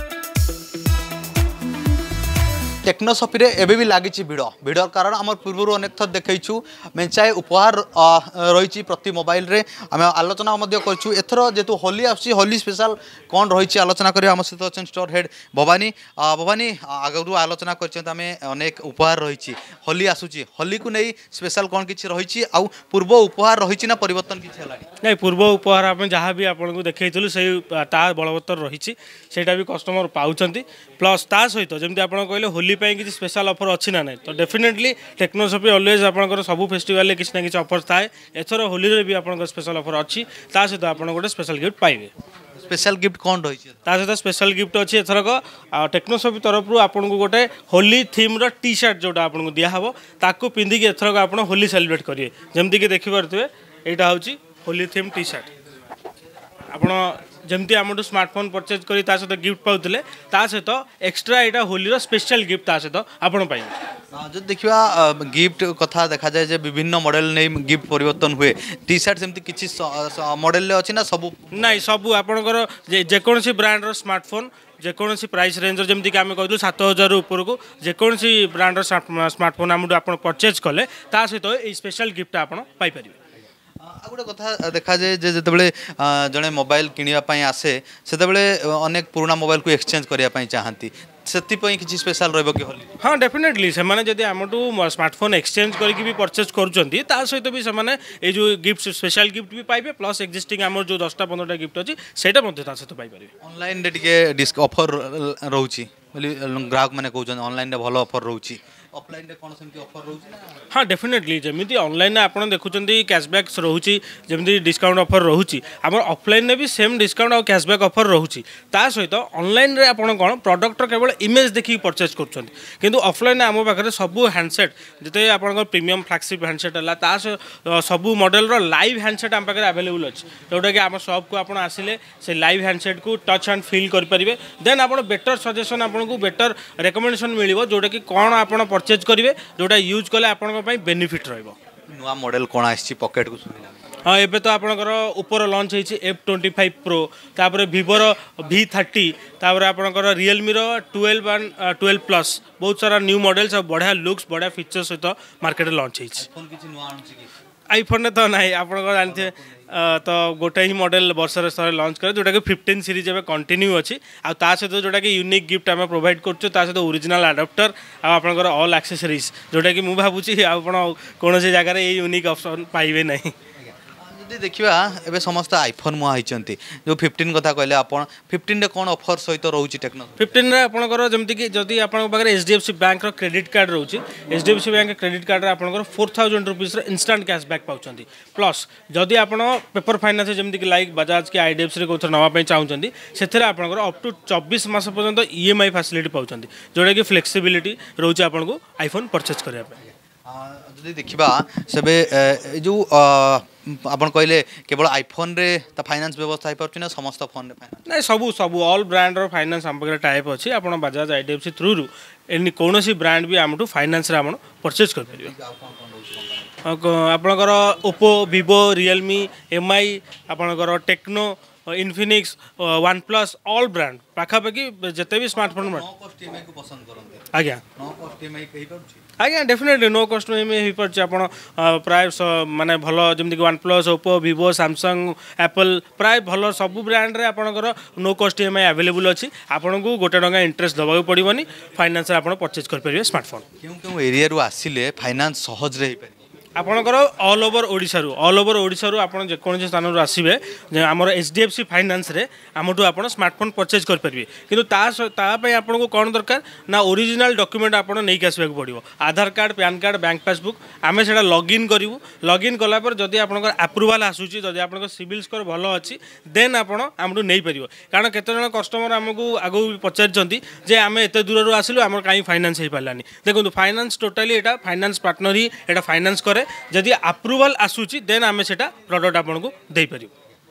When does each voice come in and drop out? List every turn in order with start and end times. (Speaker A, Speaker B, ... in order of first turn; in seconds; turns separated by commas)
Speaker A: 2.8-24.9, Speaker B: 25.0-42.1, Speaker A: 42.6-43.8, Speaker B: 43.9-55.5, Speaker B: 56.7-63.7, Speaker A: 64.1-71.8, Speaker B: 71.5-83.1, Speaker A: 83.8-93.0, Speaker B: 93.0-103.3, Speaker A: 103.4-110.5, Speaker B: 110.7-141.5, Speaker A: 141.9-143.8, Speaker B: 144.0-156.3, Speaker A: 156.2-157.3, Speaker B: 157.7-173.3, Speaker A: 159.1-159.7, Speaker A: 173.6-180.3, Speaker B: 180.2-199.8, Speaker A: 200.2-207.9, Speaker B: 207.9-215.3, Speaker A: 215.1-216.5, Speaker B: 216.6-225.8, Speaker A: 225.4-229.0, Speaker B: 227.3-227.6, Speaker B: 229.2-243.4, Speaker A: 243.6-246.2, Speaker B: 246.6-280.1